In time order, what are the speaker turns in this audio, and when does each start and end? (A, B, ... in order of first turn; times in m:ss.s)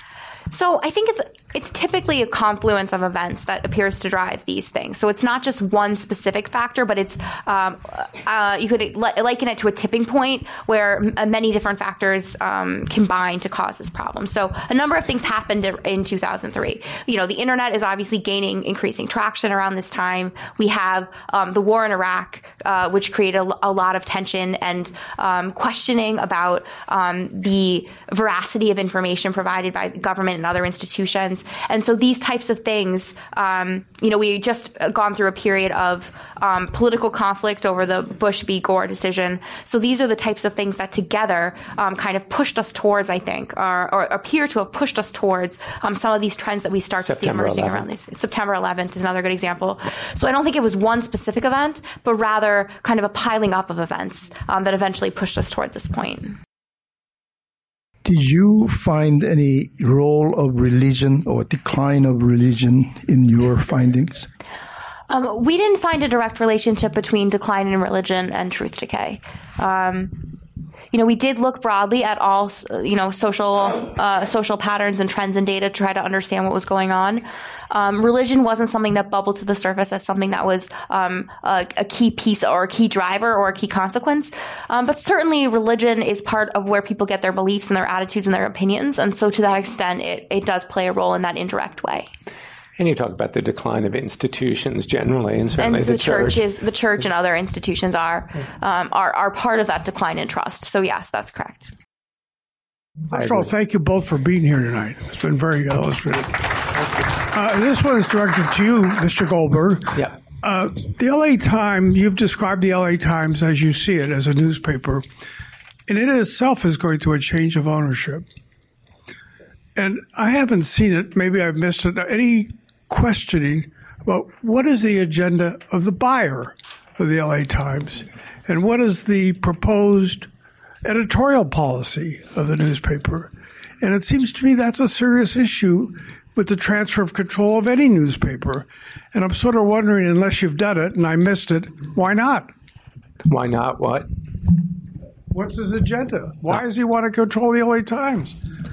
0:00.5-0:56.4 A
0:47.0-0:47.9 B
0:58.0-1:04.3 C
1:05.1-1:10.3 A
1:10.9-1:32.1 A
1:32.8-1:36.4 B
1:35.6-1:41.7 A
1:43.1-1:43.5 B
1:43.1-1:46.7 D
1:47.2-1:55.1 D
1:55.9-1:58.3 D
1:59.8-2:10.3 D
2:10.8-2:22.5 D
2:23.3-2:24.1 B
2:25.3-2:28.4 D